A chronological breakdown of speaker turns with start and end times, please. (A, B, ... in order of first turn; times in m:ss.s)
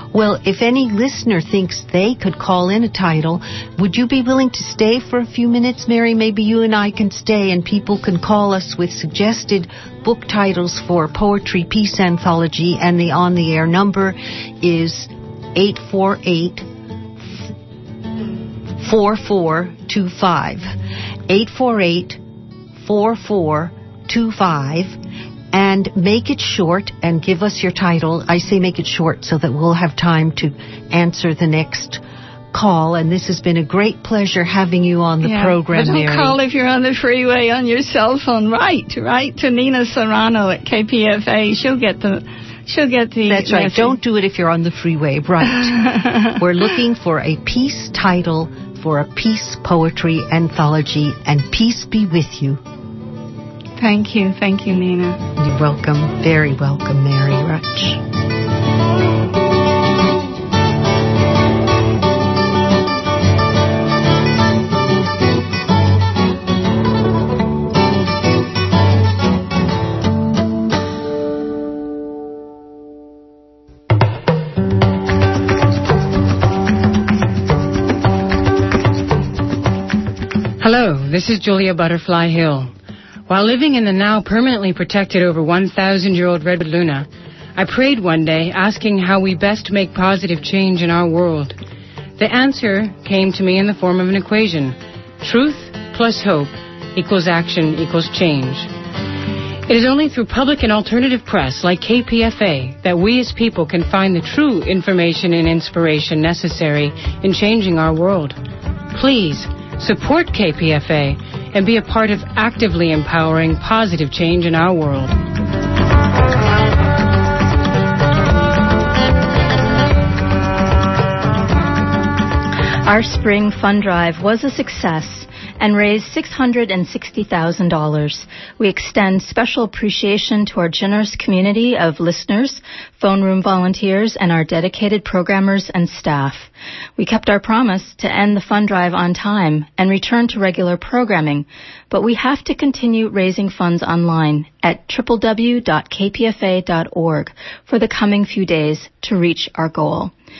0:00.1-0:16.7 A
0:17.2-0:17.5 A
0:18.8-0:20.7 A
0:21.3-0:22.2 A
0:22.8-0:25.0 A
0:25.5-0:32.0 A
0:32.5-0:36.4 A
0:35.2-0:44.0 B
0:43.2-0:52.6 A
0:53.8-0:55.2 B
0:55.4-0:58.0 A
1:20.6-1:22.7 C
1:23.3-1:31.6 C
1:32.2-1:38.7 C
1:39.6-1:48.4 C
1:48.9-1:55.2 C
2:02.8-2:30.1 D